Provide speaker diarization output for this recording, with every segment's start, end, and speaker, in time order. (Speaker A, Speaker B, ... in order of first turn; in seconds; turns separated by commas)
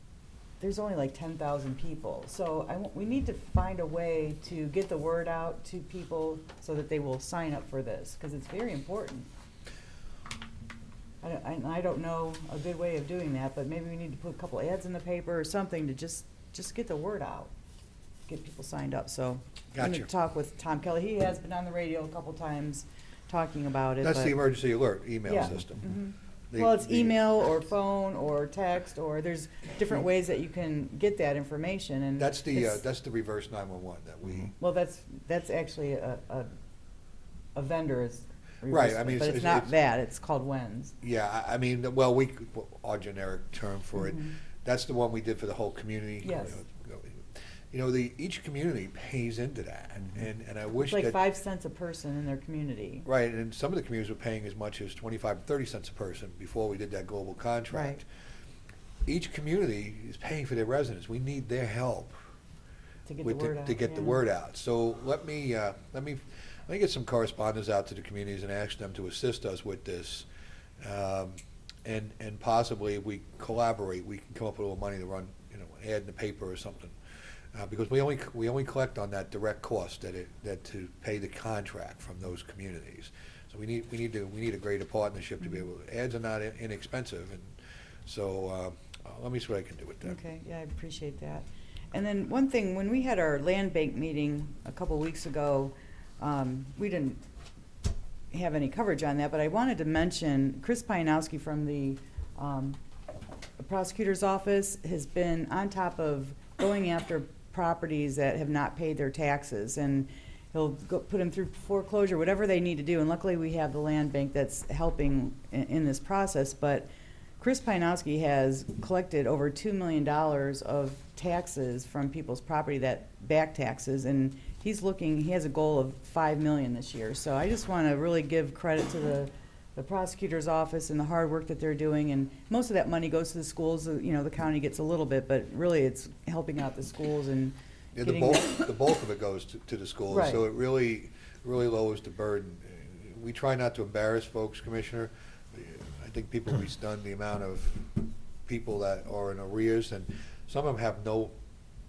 Speaker A: 0.6-9.3, Speaker A: 11.2-17.5, Speaker A: 18.3-24.4, Speaker B: 19.7-20.1, Speaker B: 24.0-25.9, Speaker A: 25.2-32.8, Speaker B: 26.5-27.2, Speaker B: 32.2-34.5, Speaker A: 34.6-36.5, Speaker A: 37.5-40.9, Speaker B: 38.7-39.7, Speaker B: 41.0-51.2, Speaker A: 44.0-44.3, Speaker A: 46.2-46.6, Speaker A: 50.8-53.1, Speaker B: 53.0-58.0, Speaker A: 57.7-58.0, Speaker B: 59.0-62.1, Speaker A: 63.1-64.2, Speaker B: 63.2-70.2, Speaker B: 70.8-76.9, Speaker B: 77.5-87.5, Speaker B: 88.0-90.2, Speaker A: 90.0-97.2, Speaker A: 98.3-102.8, Speaker A: 103.6-116.9, Speaker A: 117.4-138.7, Speaker B: 137.9-151.3, Speaker A: 140.1-140.4